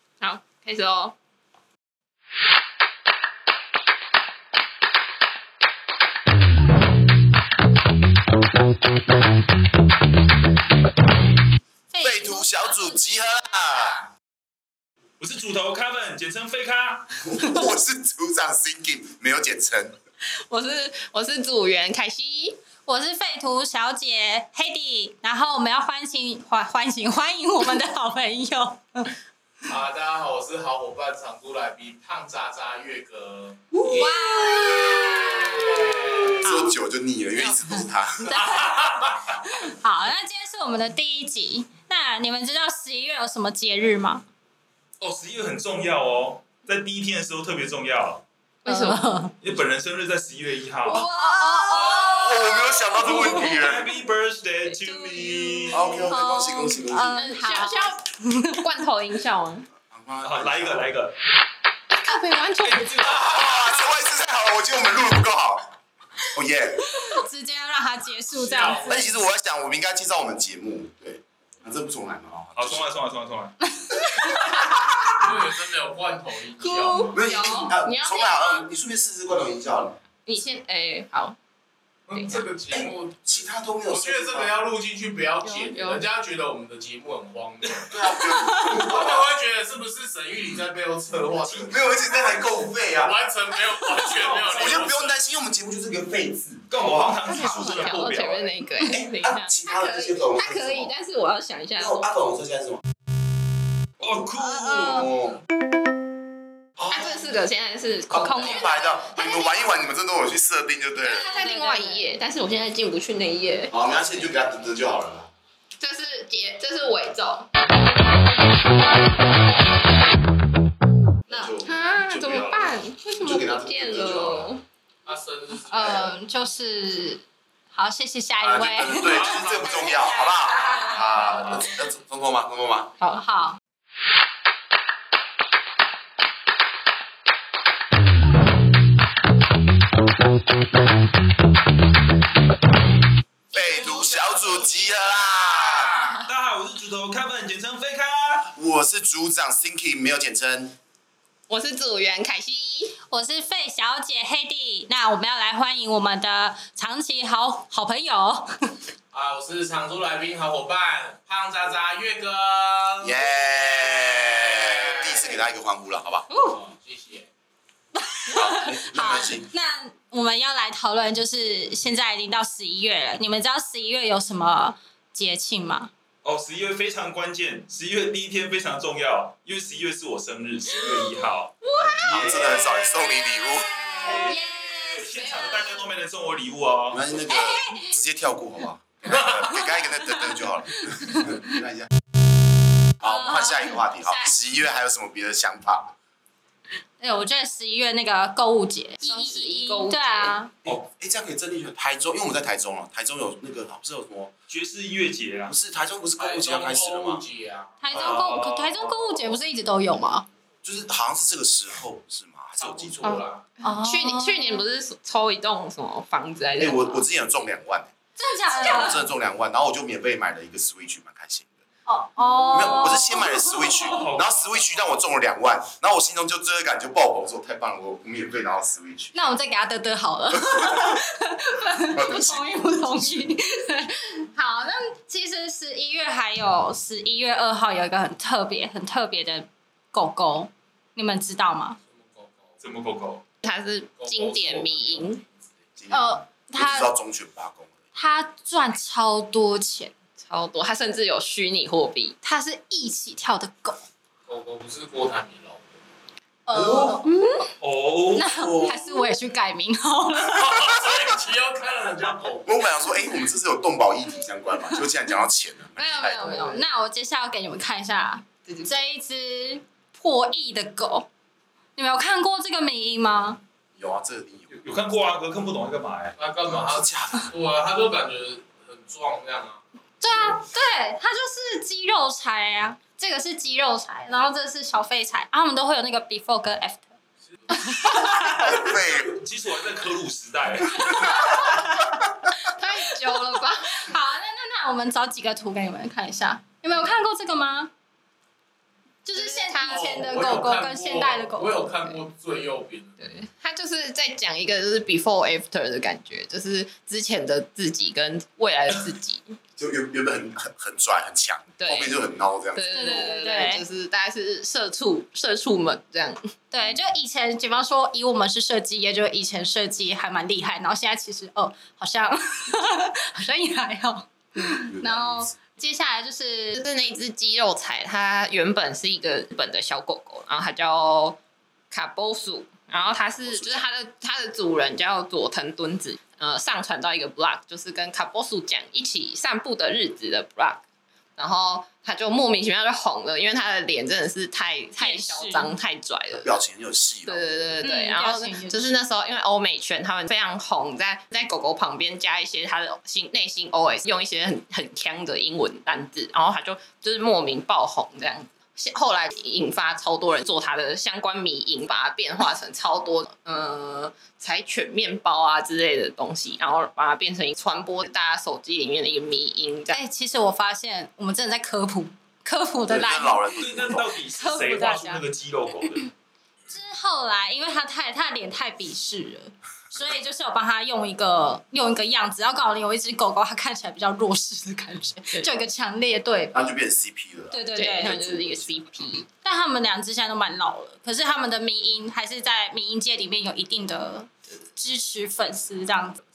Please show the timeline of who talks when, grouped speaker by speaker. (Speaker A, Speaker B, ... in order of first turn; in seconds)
Speaker A: 0.2-1.1, 20.4-22.6, 33.9-36.0, 48.6-49.0, 50.9-53.6, 54.7-58.0, 58.5-59.7, 62.0-63.1, 76.6-78.7, 80.3-81.4, 82.1-82.4, 85.4-86.0, 97.2-102.1, 106.9-109.5, 111.0-113.8, 115.8-117.5, 121.7-124.6, 151.5-153.0, 181.6-182.5, 183.3-184.4, 185.0-185.8, 199.0-200.4, 213.0-217.1, 243.4-245.2, 250.2-252.2, 266.1-266.6, 268.5-268.8, 292.5-293.9, 299.1-300.1, 303.0-309.4, 311.6-312.0, 312.5-316.3, 326.6-331.2, 331.7-340.6, 341.2-346.3, 347.1-369.8, 387.5-389.1
Speaker B: 11.9-13.2, 22.9-29.1, 33.8-36.7, 37.7-44.2, 48.7-49.4, 51.0-53.4, 56.9-58.7, 66.9-69.1, 73.8-75.0, 104.4-105.1, 108.3-108.7, 111.1-112.0, 125.7-127.2, 127.7-131.2, 133.1-133.6, 153.1-158.7, 166.3-166.6, 168.1-175.9, 183.7-185.6, 187.3-187.9, 193.0-194.4, 197.0-200.5, 207.8-210.3, 213.6-214.6, 218.2-219.1, 221.9-223.9, 229.1-241.8, 245.9-246.9, 247.9-249.9, 252.2-253.8, 256.5-257.5, 258.1-260.8, 265.8-271.1, 271.8-273.4, 280.0-286.9, 287.5-288.7, 290.9-291.9, 293.6-297.7, 299.1-302.0, 312.7-313.6, 316.5-326.6, 344.8-345.5, 347.6-348.7, 369.7-373.4, 374.1-375.0, 376.5-386.5, 387.3-388.0, 389.2-396.0
Speaker C: 12.0-14.1, 17.2-20.0, 36.4-38.4, 51.8-53.9, 55.7-57.2, 59.9-60.9, 63.0-65.7, 66.3-67.1, 68.9-72.9, 74.5-74.8, 77.1-80.0, 82.7-84.6, 87.9-89.3, 91.6-93.2, 94.5-97.4, 98.9-100.9, 101.8-102.8, 104.7-105.4, 106.8-107.1, 108.1-111.2, 113.7-115.3, 121.3-124.6, 128.4-132.9, 143.5-146.2, 148.6-150.8, 163.0-166.3, 168.3-169.5, 181.9-183.7, 186.9-191.9, 193.0-195.9, 200.7-204.3, 205.5-207.2, 210.6-213.2, 216.6-217.9, 218.5-221.5, 222.5-229.3, 230.5-231.0, 231.8-233.3, 245.8-247.7, 256.5-257.0, 258.3-258.9, 262.4-266.4, 273.8-274.6, 276.5-277.3, 288.1-289.2, 309.6-313.1, 324.6-325.4, 333.2-333.6, 346.2-347.6, 372.7-373.9, 386.3-388.9
Speaker D: 15.2-17.3, 45.0-48.2, 49.4-51.1, 53.2-56.1, 60.2-61.2, 62.6-63.5, 72.6-73.7, 87.7-87.9, 96.7-98.6, 104.0-105.1, 129.1-129.7, 146.2-148.5, 176.2-187.1, 204.5-205.6, 207.9-209.4, 223.8-224.8, 242.6-243.2, 257.6-258.4, 274.5-276.2, 288.5-291.6, 373.4-375.9
Speaker E: 29.7-33.7, 35.6-36.4, 38.4-39.1, 68.3-69.1, 75.1-77.2, 82.1-83.2, 83.9-92.2, 92.9-95.2, 125.0-126.2, 159.1-165.5, 166.3-167.3, 206.2-207.8, 212.6-213.4, 241.8-242.6, 244.0-245.3, 254.3-255.8, 260.2-262.5, 276.2-279.6, 299.7-303.0